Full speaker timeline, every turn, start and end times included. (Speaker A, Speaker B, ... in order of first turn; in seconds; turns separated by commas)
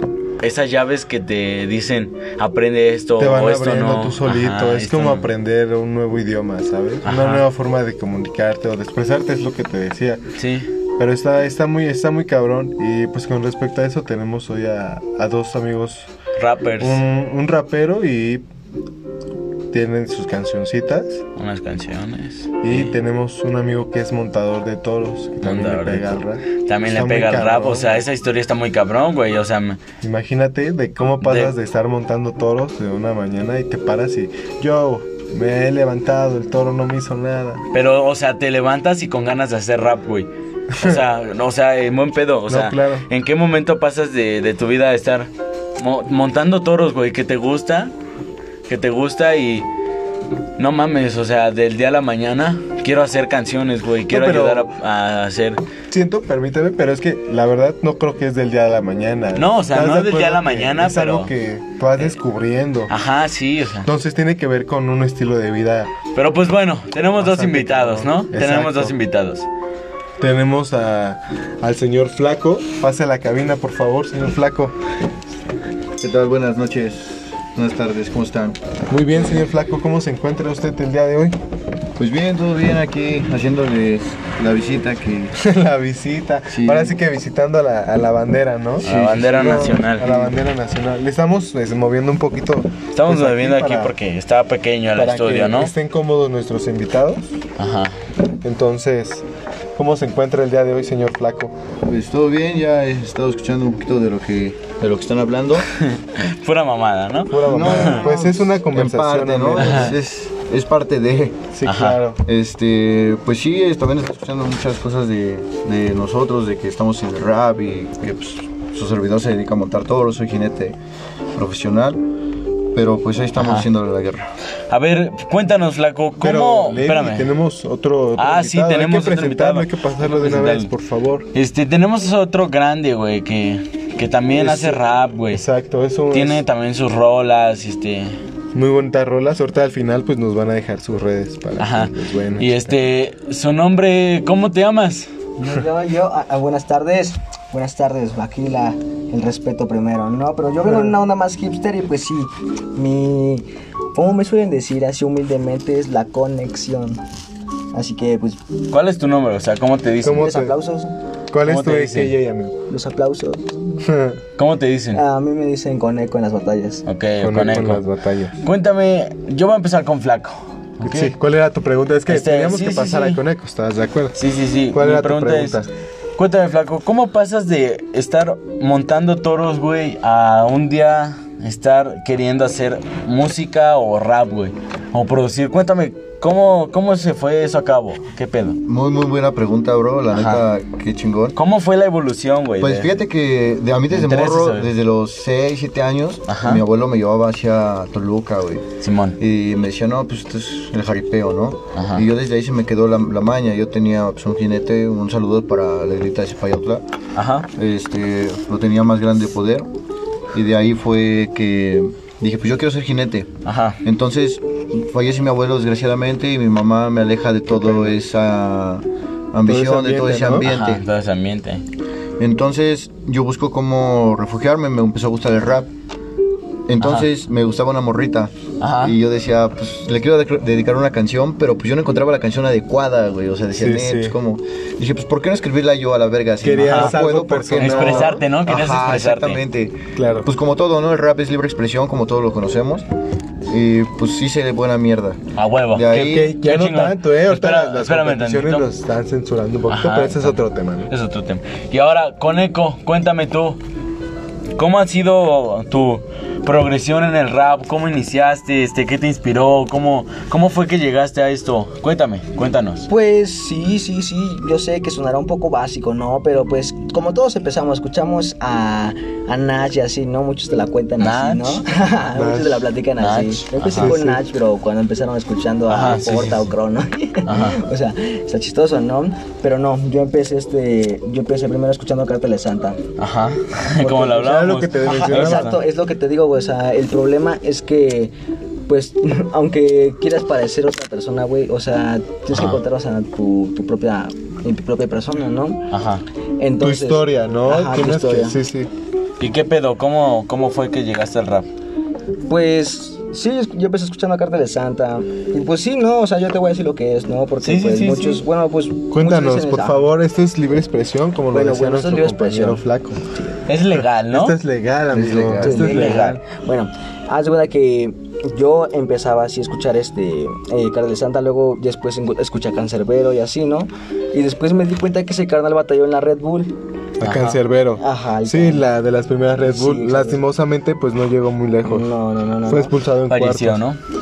Speaker A: 0.4-5.3, Speaker B: 3.2-10.3, Speaker A: 7.0-7.4, Speaker A: 10.3-10.7, Speaker B: 11.0-16.1, Speaker A: 16.4-17.0, Speaker B: 16.8-18.4, Speaker B: 19.7-21.2, Speaker A: 21.3-22.9, Speaker B: 22.6-28.0, Speaker A: 25.4-29.8, Speaker B: 30.0-37.6, Speaker A: 31.2-31.5, Speaker A: 37.7-47.9, Speaker B: 40.7-41.0, Speaker B: 42.5-43.1, Speaker A: 48.7-49.7, Speaker A: 50.6-55.6, Speaker B: 54.1-54.7, Speaker B: 55.9-62.9, Speaker A: 59.4-61.3, Speaker A: 62.9-63.9, Speaker B: 63.8-65.9, Speaker A: 66.1-69.5, Speaker B: 67.2-68.9, Speaker B: 70.2-74.8, Speaker C: 76.0-78.6, Speaker B: 78.9-81.4, Speaker C: 82.0-85.3, Speaker B: 85.3-93.9, Speaker C: 86.5-86.9, Speaker A: 88.8-90.1, Speaker C: 88.8-90.3, Speaker A: 92.9-95.7, Speaker B: 94.9-97.3, Speaker A: 97.6-98.0, Speaker B: 98.4-101.5, Speaker C: 101.8-105.7, Speaker A: 105.7-108.0, Speaker B: 107.3-110.0, Speaker C: 107.4-111.5, Speaker A: 109.6-109.9, Speaker B: 111.5-112.2, Speaker A: 111.6-112.0, Speaker C: 112.2-120.8, Speaker C: 121.3-122.0, Speaker C: 122.7-124.3, Speaker A: 123.4-123.7, Speaker A: 124.7-127.3, Speaker B: 126.2-131.3, Speaker A: 128.2-130.7, Speaker A: 131.3-135.4, Speaker B: 134.3-136.4, Speaker A: 136.1-138.2, Speaker B: 138.5-142.8, Speaker A: 141.6-145.1, Speaker D: 145.4-157.0, Speaker B: 150.6-150.9, Speaker D: 157.7-158.4, Speaker A: 158.7-160.3, Speaker B: 160.0-160.5, Speaker D: 160.1-160.9, Speaker B: 161.3-162.6, Speaker A: 161.4-162.2, Speaker D: 162.7-163.9, Speaker B: 163.8-164.2, Speaker A: 164.4-165.0, Speaker D: 164.9-166.8, Speaker A: 166.8-167.8, Speaker B: 167.2-168.4, Speaker A: 168.4-171.1, Speaker B: 170.8-175.7, Speaker A: 172.1-173.2, Speaker A: 174.2-175.6, Speaker A: 176.2-188.6, Speaker C: 188.6-191.3, Speaker A: 190.1-190.4, Speaker A: 191.3-192.9, Speaker C: 192.6-206.8, Speaker A: 193.9-194.7, Speaker A: 196.3-196.6, Speaker A: 198.8-199.2, Speaker A: 201.7-202.0, Speaker A: 207.1-207.5, Speaker C: 207.5-209.7, Speaker C: 210.3-220.8, Speaker A: 213.4-213.8, Speaker B: 217.5-217.9, Speaker B: 219.4-220.5, Speaker A: 220.4-221.6, Speaker C: 222.2-225.7, Speaker C: 226.7-242.9, Speaker A: 226.8-227.1, Speaker A: 228.6-229.0, Speaker B: 233.5-234.2, Speaker B: 236.4-238.2, Speaker A: 236.5-237.0, Speaker A: 237.6-239.4, Speaker B: 239.9-240.3, Speaker C: 243.5-246.3, Speaker A: 245.3-248.7, Speaker B: 245.9-250.9, Speaker A: 249.7-250.4, Speaker A: 250.9-253.6, Speaker A: 254.6-262.9, Speaker D: 262.9-282.8, Speaker A: 271.0-271.6, Speaker B: 272.1-272.7, Speaker A: 273.0-273.9, Speaker B: 273.8-274.2, Speaker A: 275.7-276.5, Speaker A: 277.2-277.6, Speaker A: 283.0-285.6, Speaker B: 283.8-285.6, Speaker D: 284.8-288.1, Speaker D: 288.7-295.7, Speaker A: 292.3-292.6, Speaker A: 295.7-296.0, Speaker D: 296.4-298.4, Speaker B: 296.6-298.7, Speaker A: 299.2-301.5, Speaker D: 302.3-309.9, Speaker A: 307.4-308.2, Speaker B: 308.9-313.0, Speaker D: 311.3-313.4, Speaker A: 313.4-314.4, Speaker B: 314.1-316.1, Speaker C: 314.9-315.8, Speaker D: 315.4-326.5, Speaker A: 315.5-316.2, Speaker B: 327.0-331.9, Speaker A: 327.0-327.4, Speaker D: 327.8-328.7, Speaker D: 329.4-330.2, Speaker D: 331.6-332.7, Speaker B: 332.4-333.6, Speaker A: 333.1-333.8